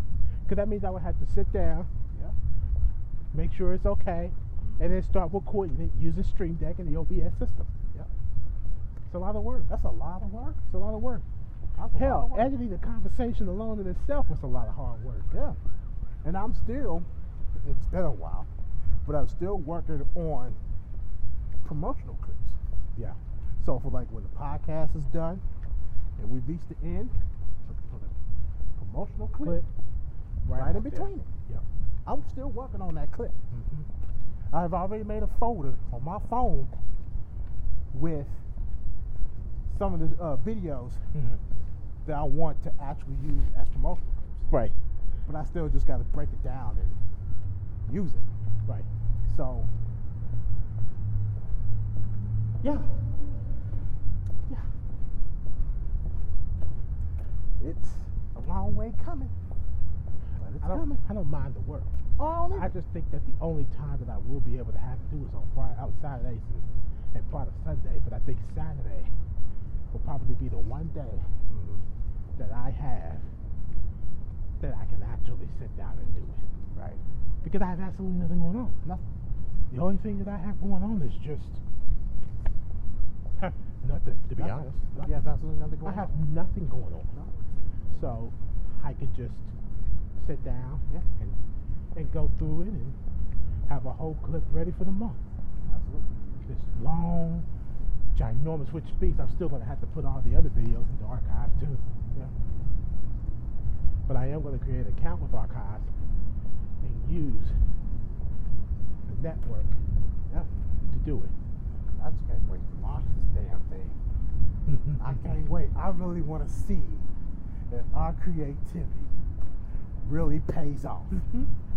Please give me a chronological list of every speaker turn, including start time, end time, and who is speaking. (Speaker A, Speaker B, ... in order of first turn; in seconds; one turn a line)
Speaker A: 0.5-1.9
Speaker A: 3.3-7.7
Speaker B: 4.6-4.9
Speaker A: 9.1-9.7
Speaker B: 9.7-10.6
Speaker A: 10.7-11.2
Speaker B: 11.8-12.6
Speaker A: 11.9-15.3
Speaker B: 15.3-15.6
Speaker B: 16.2-17.1
Speaker B: 17.6-18.5
Speaker B: 19.1-20.6
Speaker B: 21.6-22.6
Speaker B: 23.6-25.4
Speaker B: 26.2-27.1
Speaker B: 27.7-28.2
Speaker B: 28.8-29.6
Speaker A: 29.4-29.7
Speaker A: 30.4-31.6
Speaker B: 30.6-31.3
Speaker B: 32.1-33.4
Speaker A: 33.5-33.9
Speaker B: 34.5-36.7
Speaker B: 37.9-38.4
Speaker B: 39.7-41.0
Speaker A: 41.1-41.4
Speaker B: 42.0-44.4
Speaker A: 44.5-44.8
Speaker B: 45.3-47.0
Speaker B: 47.9-48.3
Speaker B: 49.3-49.7
Speaker B: 57.6-59.3
Speaker B: 60.4-61.0
Speaker A: 60.6-61.9
Speaker B: 62.2-62.7
Speaker A: 62.5-69.1
Speaker A: 69.9-71.3
Speaker B: 71.5-71.8
Speaker A: 72.4-73.2
Speaker A: 74.6-76.4
Speaker B: 76.8-77.0
Speaker A: 77.4-78.8
Speaker A: 79.7-81.6
Speaker A: 83.4-85.1
Speaker B: 84.4-86.1
Speaker A: 85.8-87.1
Speaker A: 87.9-89.5
Speaker A: 90.2-91.4
Speaker A: 92.0-93.0
Speaker A: 93.7-95.2
Speaker B: 95.7-96.1
Speaker A: 96.5-97.5
Speaker A: 98.1-101.8
Speaker A: 104.1-105.9
Speaker A: 106.8-107.6
Speaker A: 109.1-109.8
Speaker A: 110.9-111.3
Speaker B: 112.0-114.0
Speaker A: 114.7-115.3
Speaker B: 115.0-117.1
Speaker B: 117.7-119.2
Speaker B: 120.0-121.2
Speaker A: 121.2-121.5